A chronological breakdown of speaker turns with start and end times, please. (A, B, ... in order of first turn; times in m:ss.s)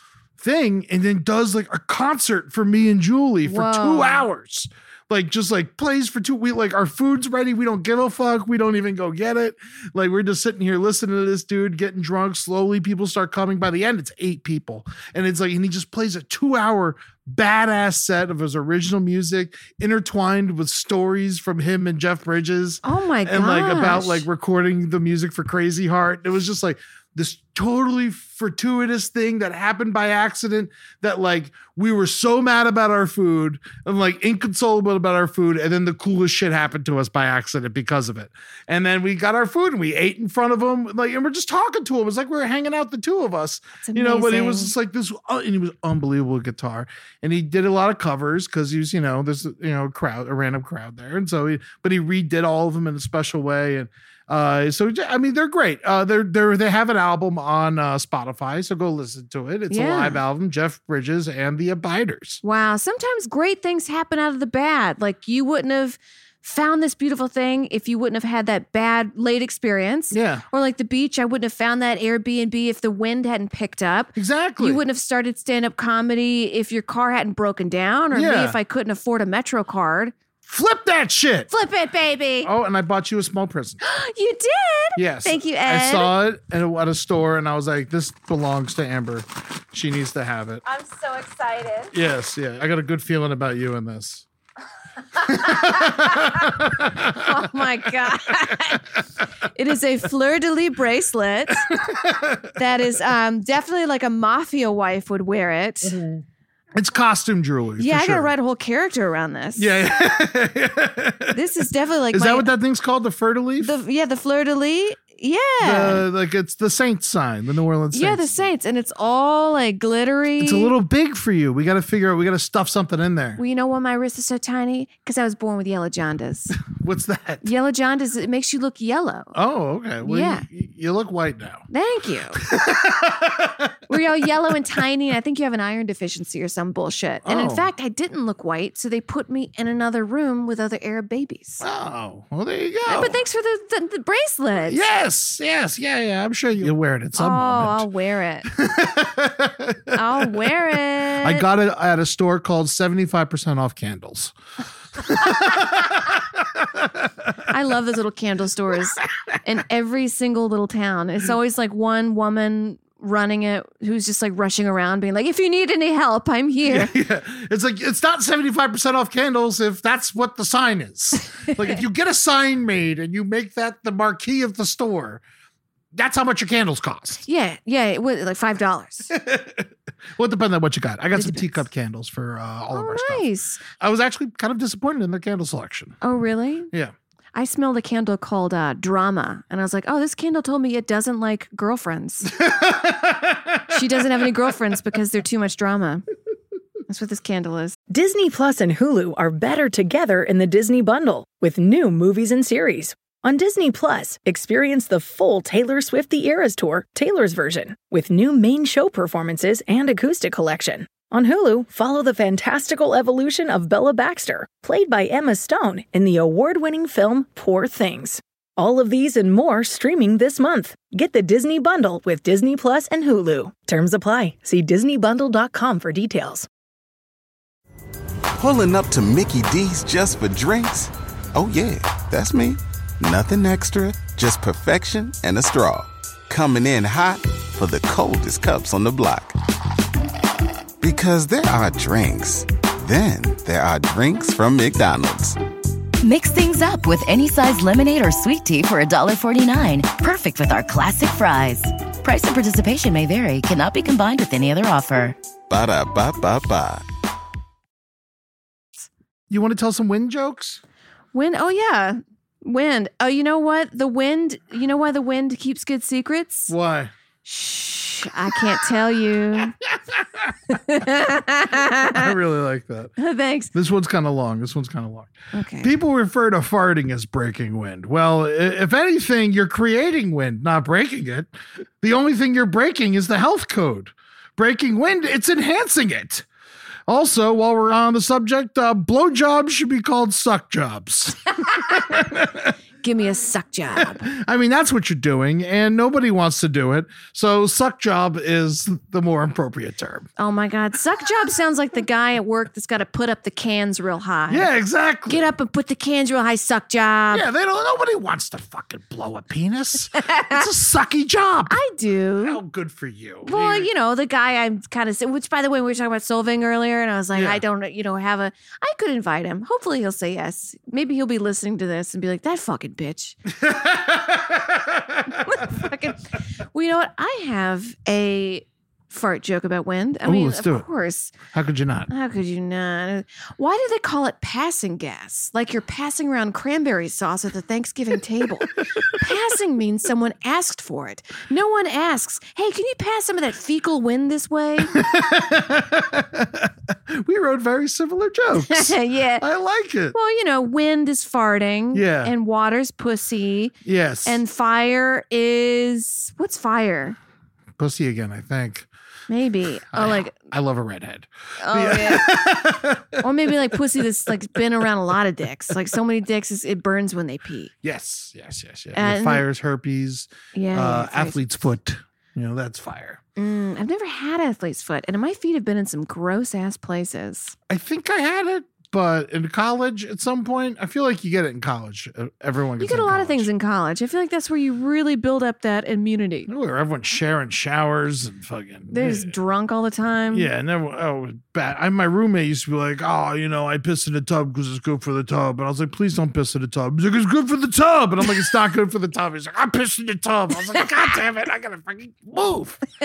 0:00.4-1:02.4 A
0:03.4-0:04.2 B
0:22.8-0:24.3 B
0:43.8-0:44.7 B
0:59.7-1:00.2 B
1:02.4-1:20.2 B
1:10.1-1:10.4 A
1:14.2-1:14.8 A
1:18.1-1:18.6 A
1:20.5-1:21.5 A
1:21.5-1:22.5 B
1:22.4-1:23.8 A
1:23.8-1:26.2 B
1:25.0-1:30.6 A
1:30.6-1:31.9 B
1:31.9-1:34.2 A
1:35.2-1:38.9 B
1:35.2-1:37.5 A
1:39.5-1:41.7 B
1:41.7-1:42.5 A
1:42.6-1:46.0 B
1:45.8-1:46.2 A
1:46.8-1:48.3 A
1:47.8-1:49.8 B
1:49.6-1:51.4 A
1:51.3-1:52.5 B
1:52.1-1:53.7 A
1:53.6-1:56.0 B
1:55.6-1:58.4 A
1:57.9-2:00.7 B
2:00.4-2:03.4 A
2:03.4-2:06.6 B
2:06.6-2:07.5 A
2:07.4-2:09.3 B
2:09.3-2:11.6 A
2:10.0-2:10.4 B
2:11.7-2:12.4 B
2:12.4-2:14.3 A
2:13.9-2:21.6 B
2:17.2-2:17.7 A
2:21.6-2:23.2 A
2:22.9-2:24.8 B
2:24.6-2:27.9 A
2:27.2-2:28.5 B
2:28.5-2:34.3 A
2:29.9-2:31.4 B
2:35.0-2:37.3 A
2:37.5-2:46.9 B
2:46.7-2:55.2 A
2:55.9-2:57.2 A
2:57.2-2:59.1 B
2:59.1-3:03.3 A
3:01.1-3:01.6 B
3:02.7-3:03.6 B
3:03.8-3:06.0 A
3:06.0-3:06.7 B
3:07.4-3:12.4 B
3:12.3-3:14.3 A
3:13.7-3:16.0 B
3:16.9-3:17.8 B
3:17.9-3:46.5 C
3:48.4-3:59.4 D
4:00.8-4:05.4 D
4:06.0-4:15.2 E
4:15.5-4:16.8 D
4:19.3-4:20.6 A
4:21.1-4:26.5 B
4:26.5-4:26.9 A
4:27.2-4:29.5 B
4:29.4-4:30.4 A
4:30.5-4:32.1 B
4:31.5-4:32.9 A
4:33.0-4:33.5 B
4:33.5-4:46.2 A
4:35.3-4:35.7 B
4:46.9-4:52.5 A
4:52.8-4:54.1 B
4:53.8-5:00.1 A
5:00.2-5:04.5 B
5:04.3-5:05.3 A
5:05.1-5:07.3 B
5:07.1-5:11.6 A
5:10.0-5:10.4 B
5:11.5-5:12.4 B
5:12.2-5:13.7 A
5:13.2-5:23.2 B
5:17.1-5:17.4 A
5:23.3-5:25.5 A
5:25.1-5:31.2 B
5:30.0-5:30.7 A
5:31.3-5:31.9 A
5:31.9-5:44.8 B
5:38.8-5:39.1 A
5:44.6-5:50.0 A
5:48.4-5:49.2 B
5:49.9-5:57.0 B
5:51.7-5:52.1 A
5:53.6-5:54.2 A
5:57.6-5:58.7 A
5:59.1-6:00.2 B
5:59.7-6:04.7 A
6:01.4-6:02.2 B
6:03.0-6:07.5 B
6:07.6-6:13.0 A
6:08.7-6:09.2 B
6:10.3-6:11.3 B
6:13.2-6:17.4 B
6:17.5-6:23.3 A
6:22.6-6:26.3 B
6:26.3-6:29.2 A
6:28.7-6:30.3 B
6:30.1-6:42.6 A